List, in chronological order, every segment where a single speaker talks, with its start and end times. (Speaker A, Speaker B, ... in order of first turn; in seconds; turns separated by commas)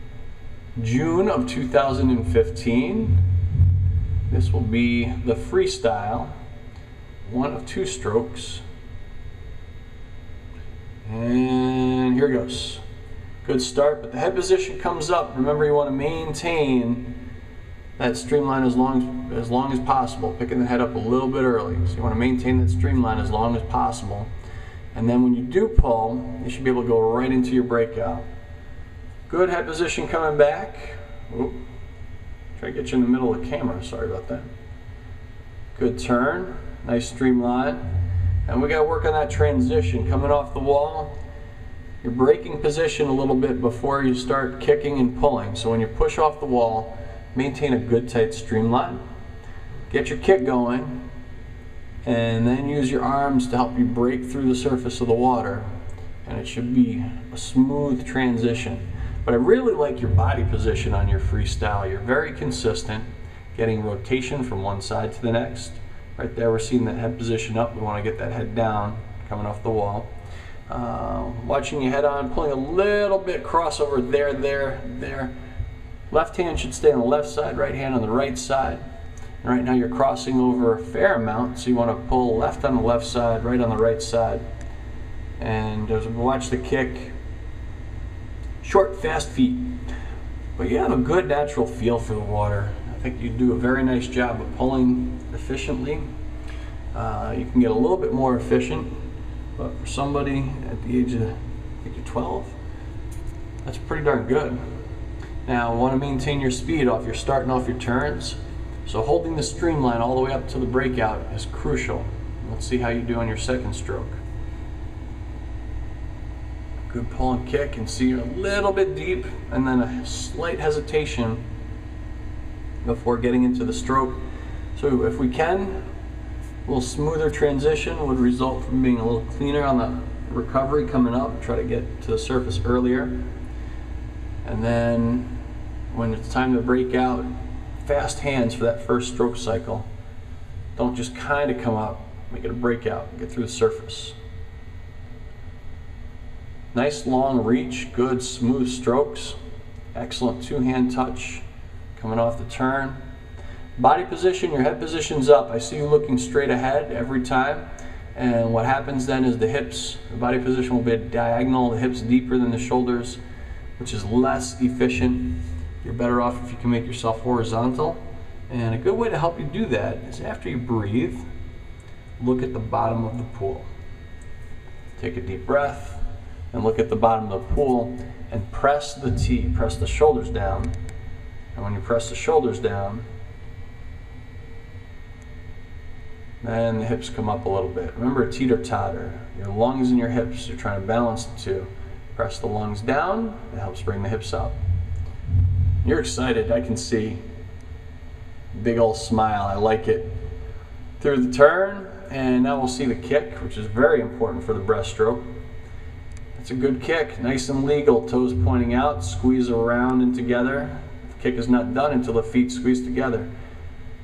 Speaker A: 0.8-3.2, Speaker A: 4.3-6.3, Speaker A: 7.2-8.6, Speaker A: 11.0-12.8, Speaker A: 13.4-17.2, Speaker A: 18.0-24.3, Speaker A: 24.9-28.2, Speaker A: 29.3-31.6, Speaker A: 32.5-34.5, Speaker A: 35.7-37.9, Speaker A: 38.5-41.2, Speaker A: 42.0-49.0, Speaker A: 49.9-51.0, Speaker A: 52.0-55.7, Speaker A: 56.2-70.1, Speaker A: 70.7-75.3, Speaker A: 76.1-78.8, Speaker A: 79.4-84.4, Speaker A: 85.4-87.1, Speaker A: 88.6-89.7, Speaker A: 90.5-96.0, Speaker A: 96.9-98.9, Speaker A: 99.6-102.5, Speaker A: 103.6-104.6, Speaker A: 105.4-114.2, Speaker A: 116.9-121.4, Speaker A: 122.8-124.2, Speaker A: 124.8-125.8, Speaker A: 126.6-133.2, Speaker A: 134.4-135.4, Speaker A: 135.9-137.3, Speaker A: 137.8-139.9, Speaker A: 140.8-144.2, Speaker A: 146.7-149.4, Speaker A: 149.9-151.4, Speaker A: 151.9-153.0, Speaker A: 153.8-163.2, Speaker A: 163.8-171.2, Speaker A: 172.2-173.7, Speaker A: 175.0-180.7, Speaker A: 181.5-183.0, Speaker A: 186.4-194.6, Speaker A: 195.8-197.2, Speaker A: 198.5-200.1, Speaker A: 201.0-205.3, Speaker A: 206.3-213.3